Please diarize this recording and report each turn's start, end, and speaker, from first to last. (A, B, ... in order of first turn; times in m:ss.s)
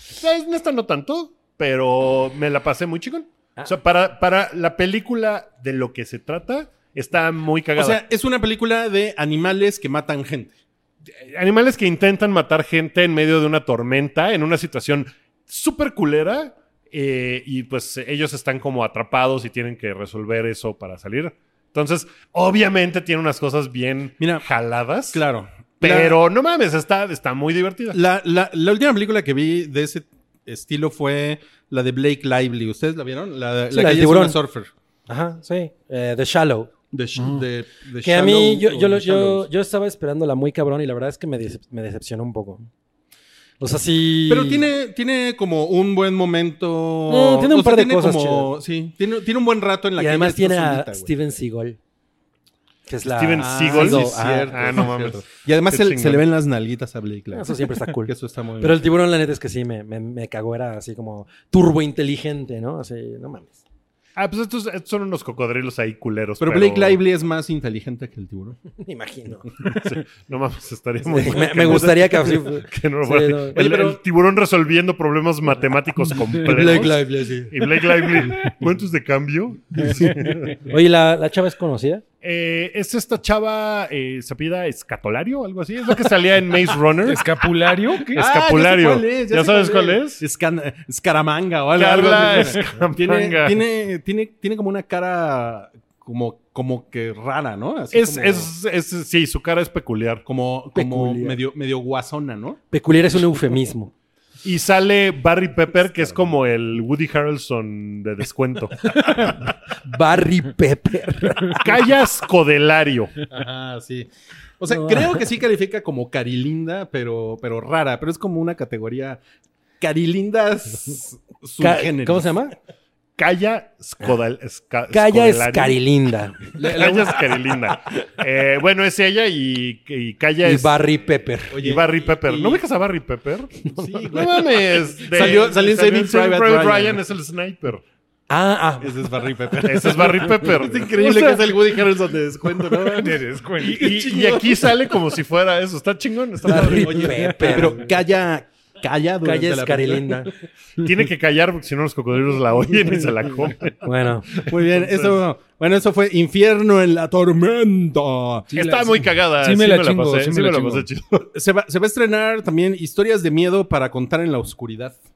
0:00.2-0:08.0 A
0:07.8-0:10.5 B
0:11.2-0:25.2 A
0:24.2-0:24.5 B
0:25.1-0:26.2 B
0:25.8-0:28.0 A
0:27.9-0:34.7 B
0:33.7-0:34.4 C
0:35.1-0:36.7 C
0:36.9-0:39.5 B
0:37.2-0:37.4 D
0:38.0-0:42.7 C
0:43.6-0:44.7 C
0:44.3-0:51.1 B
0:47.1-0:48.5 C
0:50.0-0:51.8 C
0:52.9-0:54.8 C
0:53.1-0:56.2 A
0:53.4-0:58.8 B
0:57.3-1:03.6 C
1:04.2-1:07.0 A
1:06.4-1:08.6 B
1:08.7-1:09.5 C
1:09.6-1:20.6 A
1:11.0-1:13.6 C
1:13.5-1:14.0 B
1:16.2-1:17.8 C
1:16.6-1:16.9 B
1:20.1-1:20.4 B
1:20.6-1:22.0 C
1:22.2-1:27.3 A
1:27.0-1:28.2 D
1:28.1-1:30.2 A
1:28.2-1:38.5 B
1:31.8-1:33.6 A
1:37.9-1:40.2 A
1:40.3-1:42.6 B
1:40.7-1:41.4 C
1:42.7-1:43.9 C
1:44.4-1:49.2 A
1:49.2-1:51.6 C
1:51.6-1:53.2 A
1:53.3-1:59.2 B
1:54.7-1:55.2 C
1:59.8-2:02.3 B
2:01.6-2:02.6 C
2:03.2-2:05.8 A
2:04.9-2:06.6 C
2:06.6-2:07.3 D
2:06.6-2:10.7 A
2:10.4-2:11.6 C
2:11.5-2:12.6 B
2:11.6-2:17.8 A
2:13.8-2:17.0 B
2:18.3-2:19.1 C
2:18.8-2:24.9 B
2:19.6-2:21.8 A
2:22.6-2:27.4 A
2:23.2-2:23.9 D
2:26.5-2:28.0 C
2:26.6-2:30.3 B
2:29.2-2:30.3 C
2:30.8-2:35.2 A
2:33.8-2:34.3 C
2:34.4-2:38.5 B
2:38.5-2:40.9 D
2:38.5-2:41.3 A
2:41.3-2:45.0 B